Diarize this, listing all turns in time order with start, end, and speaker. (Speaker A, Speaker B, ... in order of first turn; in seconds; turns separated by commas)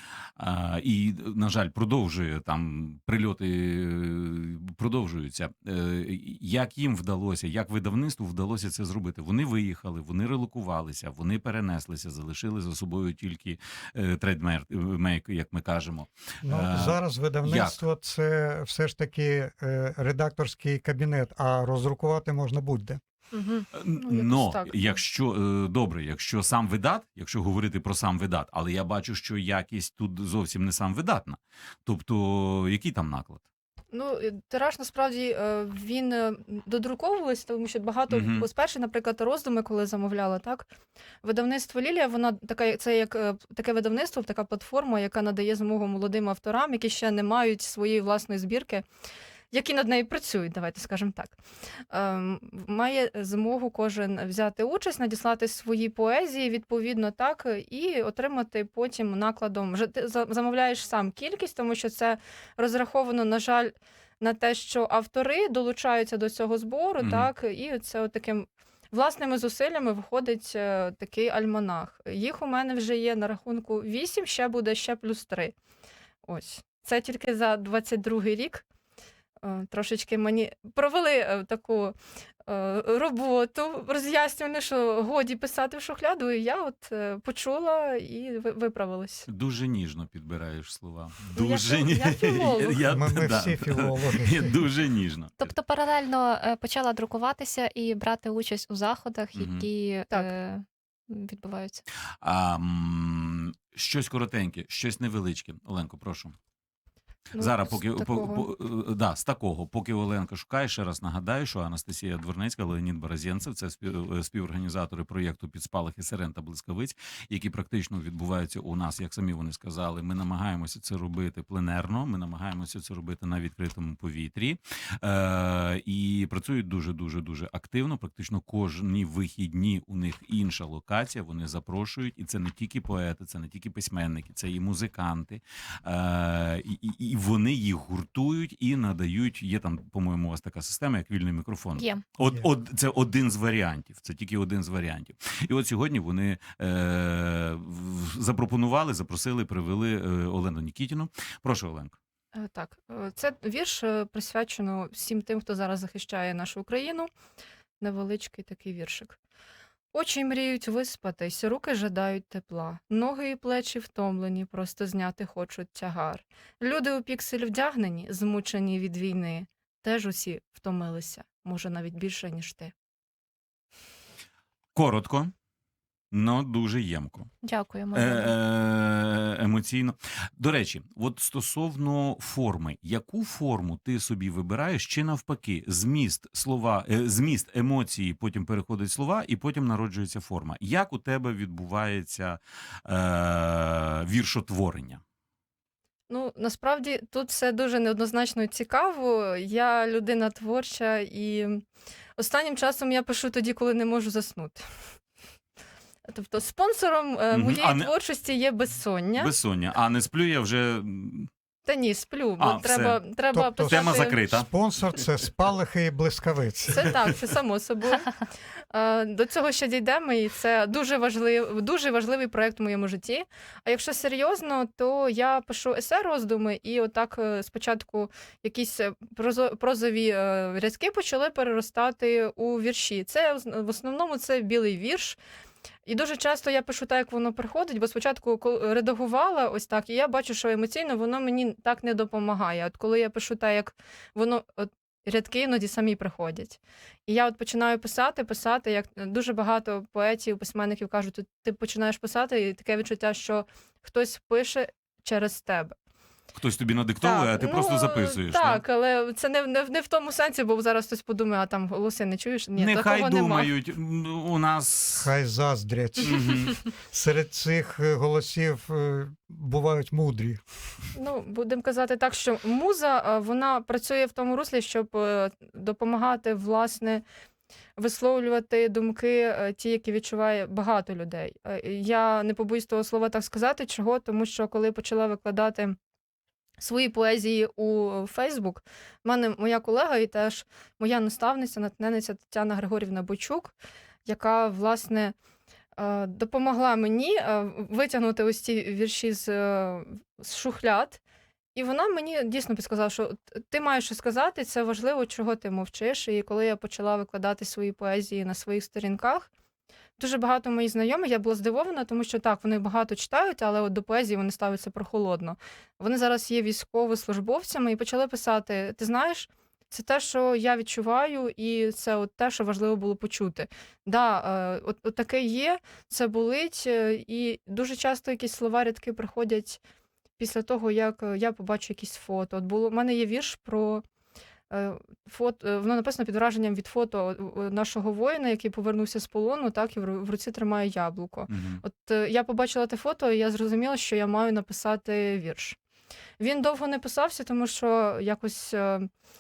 Speaker A: 0.4-17.8, Speaker B: 16.4-23.0, Speaker C: 23.3-23.7, Speaker A: 23.7-33.4, Speaker C: 24.6-25.0, Speaker C: 33.9-40.7, Speaker A: 38.1-38.5, Speaker C: 41.2-48.9, Speaker C: 49.5-51.4, Speaker C: 51.9-75.5, Speaker A: 67.0-67.3, Speaker C: 76.2-78.7, Speaker C: 79.4-82.0, Speaker C: 82.5-89.2, Speaker A: 89.3-95.5, Speaker C: 91.3-92.8, Speaker B: 92.9-94.6, Speaker D: 95.4-101.8, Speaker A: 99.4-99.7, Speaker A: 102.2-106.3, Speaker A: 107.3-152.0, Speaker C: 107.3-108.5, Speaker D: 141.8-142.0, Speaker C: 152.3-157.1, Speaker C: 157.8-159.2, Speaker C: 159.9-172.7, Speaker A: 174.8-175.3, Speaker A: 176.1-177.3, Speaker D: 177.4-178.0, Speaker A: 177.9-195.0, Speaker C: 178.0-178.3, Speaker C: 196.1-201.6, Speaker C: 202.2-204.7, Speaker C: 206.1-209.3, Speaker A: 207.3-208.0, Speaker A: 209.2-211.3, Speaker C: 211.7-213.7, Speaker A: 212.4-213.0, Speaker B: 213.3-217.0, Speaker A: 213.7-214.5, Speaker C: 216.7-218.1, Speaker C: 218.7-235.2, Speaker C: 235.9-255.8, Speaker A: 256.4-258.6, Speaker C: 257.3-263.5, Speaker A: 262.6-265.1, Speaker B: 265.0-270.4, Speaker A: 266.0-266.6, Speaker C: 270.9-277.0, Speaker C: 277.8-285.8, Speaker C: 286.6-293.5, Speaker C: 294.1-295.1, Speaker C: 295.8-301.0, Speaker C: 301.5-309.3, Speaker C: 310.0-329.6, Speaker C: 330.2-333.8, Speaker C: 334.5-345.6, Speaker A: 341.3-341.6, Speaker C: 346.2-348.9